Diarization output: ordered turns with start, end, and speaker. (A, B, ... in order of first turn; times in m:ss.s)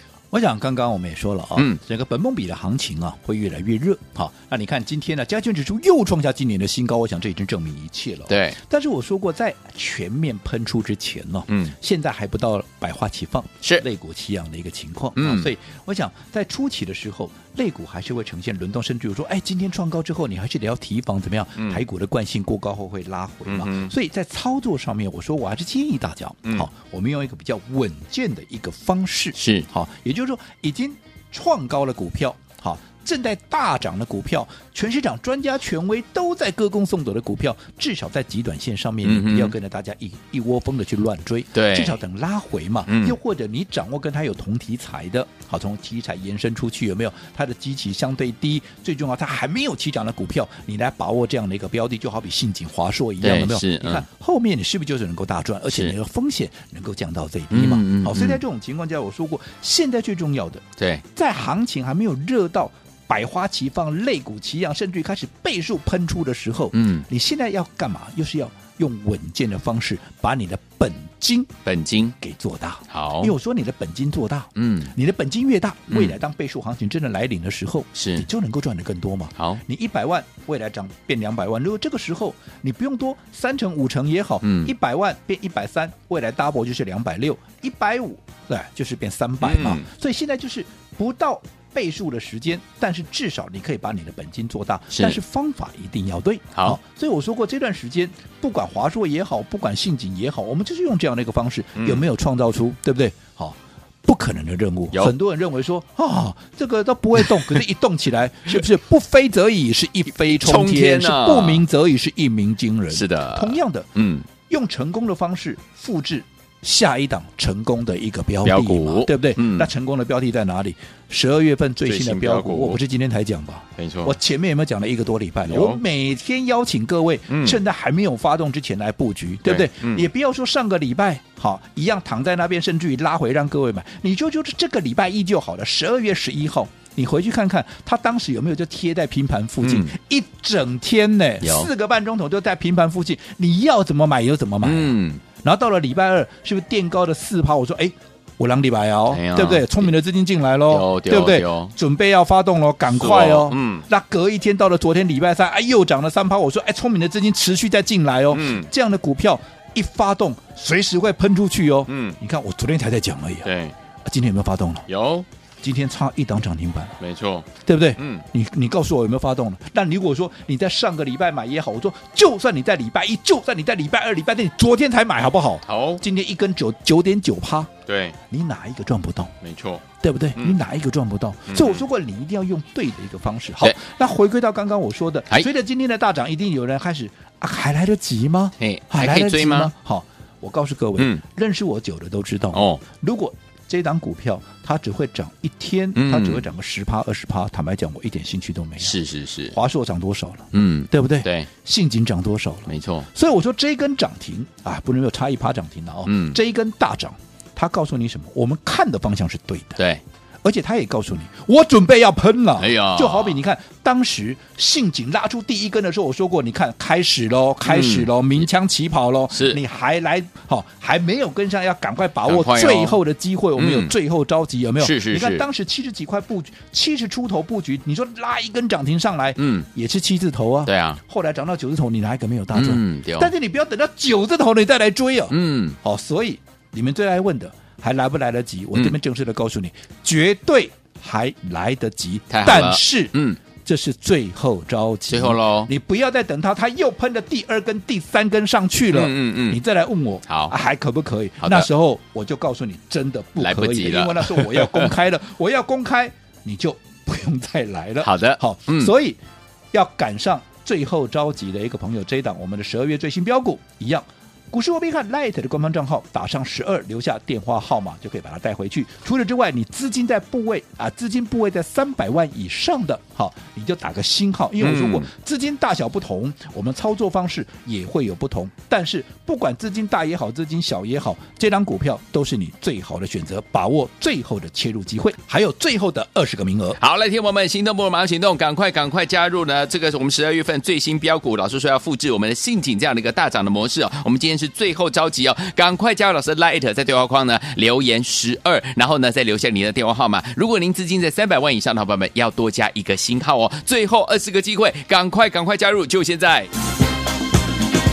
0:00.3-1:11.5 A
0:08.3-0:08.6 B
0:11.5-0:11.7 B
0:15.2-0:15.5 B
0:23.5-0:23.9 B
0:29.4-0:29.7 B
0:39.0-0:39.5 B
0:41.6-0:42.0 B
0:42.9-0:43.2 B
0:53.2-0:54.0 B
0:55.7-0:55.9 B
0:57.5-0:58.4 B
1:00.8-1:01.0 B
1:06.7-1:07.1 B
1:11.6-1:12.2 B
1:12.2-1:53.9 A
1:12.9-1:13.3 B
1:14.6-1:14.9 B
1:15.9-1:16.2 B
1:18.0-1:18.3 B
1:19.4-1:19.6 B
1:24.4-1:24.7 B
1:29.4-1:29.9 B
1:34.9-1:35.2 B
1:41.8-1:42.1 B
1:47.2-1:47.6 B
1:50.2-1:51.6 B
1:52.9-1:54.3 B
1:54.5-2:43.5 A
1:58.4-1:59.7 B
2:01.8-2:02.8 B
2:03.8-2:04.2 B
2:05.5-2:05.8 B
2:07.3-2:07.6 B
2:09.4-2:10.1 B
2:19.6-2:19.9 B
2:21.4-2:21.7 B
2:24.6-2:25.2 B
2:29.1-2:29.9 B
2:30.7-2:31.7 B
2:32.9-2:33.9 B
2:38.3-2:38.7 B
2:41.9-2:42.2 B
2:43.4-2:43.8 B
2:44.0-2:44.9 A
2:44.9-2:45.3 B
2:45.6-2:47.0 A
2:47.0-2:48.3 B
2:47.6-2:57.7 A
2:55.7-2:56.0 B
2:57.9-2:58.2 B
2:58.3-2:59.3 A
2:59.4-2:59.8 B
3:00.0-3:19.0 A
3:01.5-3:01.9 B
3:08.6-3:09.7 B
3:11.0-3:11.2 B
3:12.5-3:12.8 B
3:16.0-3:16.4 B
3:18.8-3:19.6 B
3:19.5-3:29.8 A
3:20.5-3:21.5 B
3:22.7-3:23.1 B
3:26.1-3:26.4 B
3:29.8-3:30.0 B
3:30.4-4:19.2 A
3:32.6-3:33.4 B
3:37.6-3:38.5 B
3:39.3-3:39.6 B
3:42.2-3:43.0 B
3:43.6-3:43.9 B
3:44.8-3:45.5 B
3:49.4-3:49.7 B
3:50.7-3:51.0 B
3:52.5-3:53.3 B
3:55.3-3:55.8 B
4:02.3-4:03.4 B
4:05.1-4:05.7 B
4:08.9-4:09.6 B
4:10.3-4:10.5 B
4:11.4-4:11.7 B
4:13.4-4:14.9 B
4:18.0-4:18.9 B
4:19.7-4:46.8 A
4:34.6-4:35.1 B
4:46.8-5:06.5 B